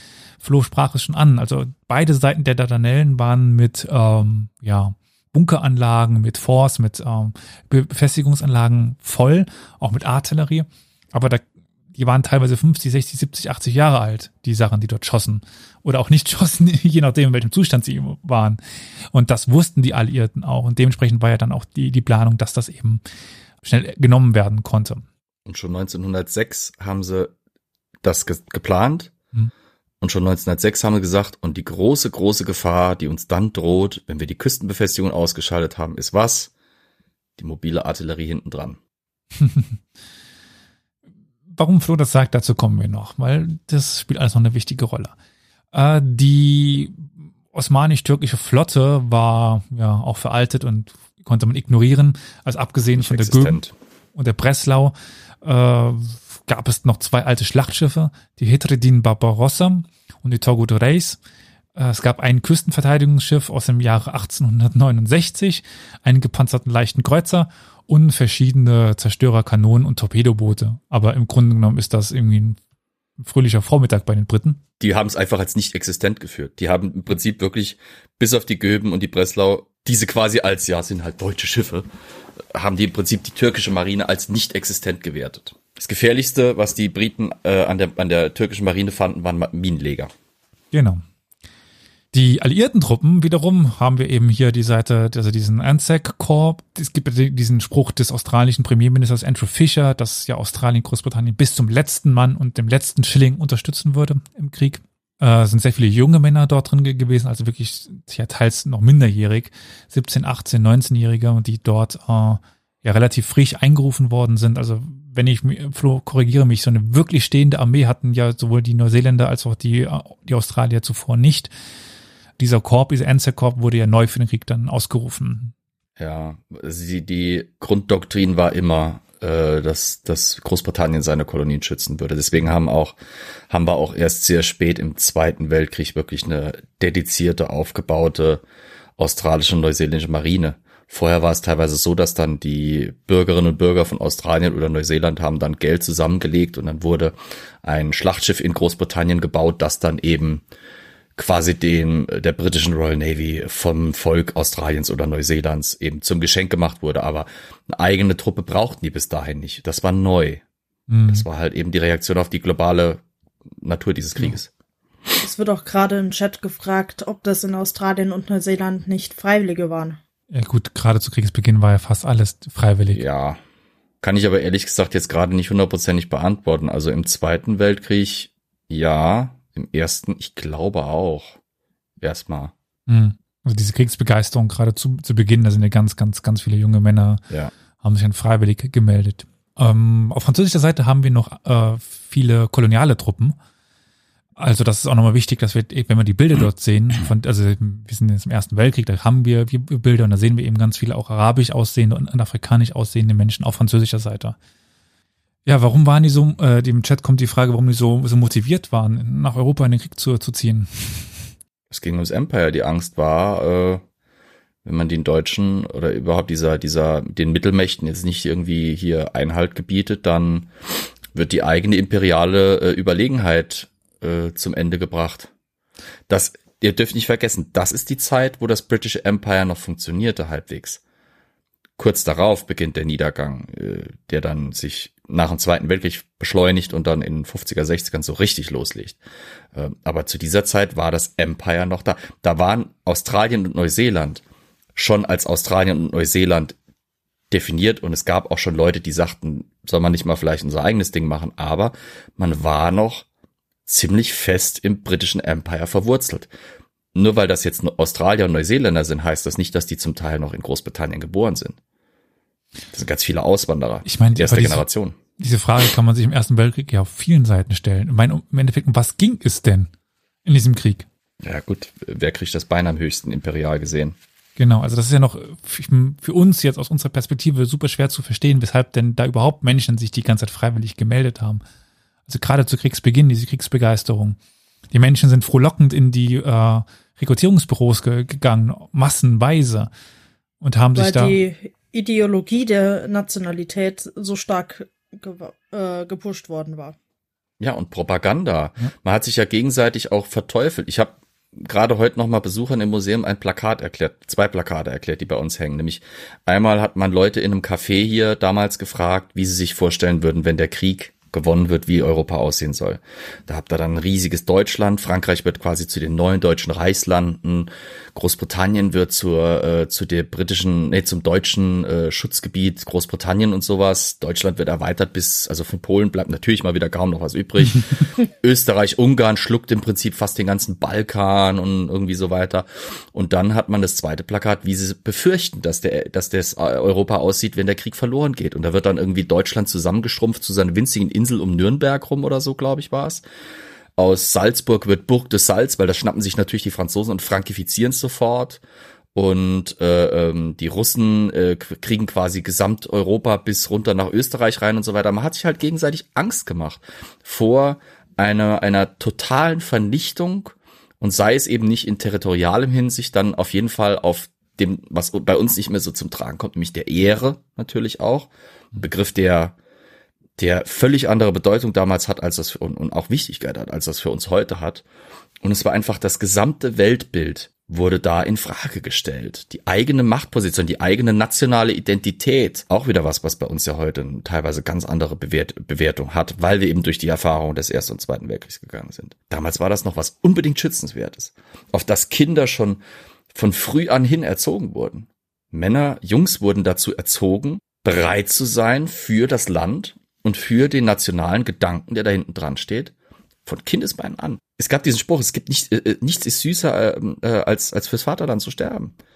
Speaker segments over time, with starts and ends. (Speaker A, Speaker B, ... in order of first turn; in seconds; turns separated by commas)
Speaker A: 0.4-18.6, Speaker A: 19.1-23.0, Speaker A: 23.6-25.1, Speaker B: 25.4-27.3, Speaker B: 28.0-29.1, Speaker B: 30.0-36.5, Speaker B: 37.4-38.8, Speaker A: 39.4-39.8, Speaker A: 41.5-45.1, Speaker A: 45.7-53.6, Speaker B: 52.9-53.7, Speaker A: 54.1-61.2, Speaker A: 61.8-72.6, Speaker A: 73.2-74.6, Speaker B: 74.8-81.9, Speaker B: 82.5-90.1, Speaker A: 90.7-91.0, Speaker A: 92.1-121.5, Speaker A: 122.4-125.5, Speaker B: 126.0-132.9, Speaker B: 133.5-138.4, Speaker B: 139.0-150.4, Speaker B: 151.2-160.4, Speaker A: 160.9-161.2, Speaker B: 161.1-163.0, Speaker B: 163.6-164.5, Speaker C: 165.2-170.0, Speaker A: 170.3-173.0, Speaker B: 172.9-173.4, Speaker B: 174.0-181.4, Speaker B: 182.0-182.5, Speaker A: 182.9-187.2, Speaker A: 187.8-193.3, Speaker A: 194.4-204.3, Speaker A: 205.4-211.2, Speaker B: 211.7-213.8, Speaker B: 214.6-220.5, Speaker B: 221.1-225.3, Speaker B: 226.1-230.8, Speaker B: 231.8-239.0, Speaker B: 239.5-244.2, Speaker B: 244.7-246.6, Speaker B: 247.3-253.1, Speaker B: 253.7-256.3, Speaker B: 256.9-261.6, Speaker B: 262.7-265.0, Speaker A: 263.8-264.6, Speaker A: 265.2-269.7, Speaker A: 270.2-270.9, Speaker B: 271.2-273.9, Speaker A: 274.4-281.4, Speaker A: 282.1-284.2, Speaker A: 284.7-289.7, Speaker A: 290.4-291.2, Speaker C: 290.7-296.8, Speaker B: 297.4-343.0, Speaker B: 343.8-348.4, Speaker B: 348.9-369.4, Speaker B: 370.2-374.6, Speaker B: 375.2-392.6, Speaker B: 393.1-402.7, Speaker B: 403.2-408.7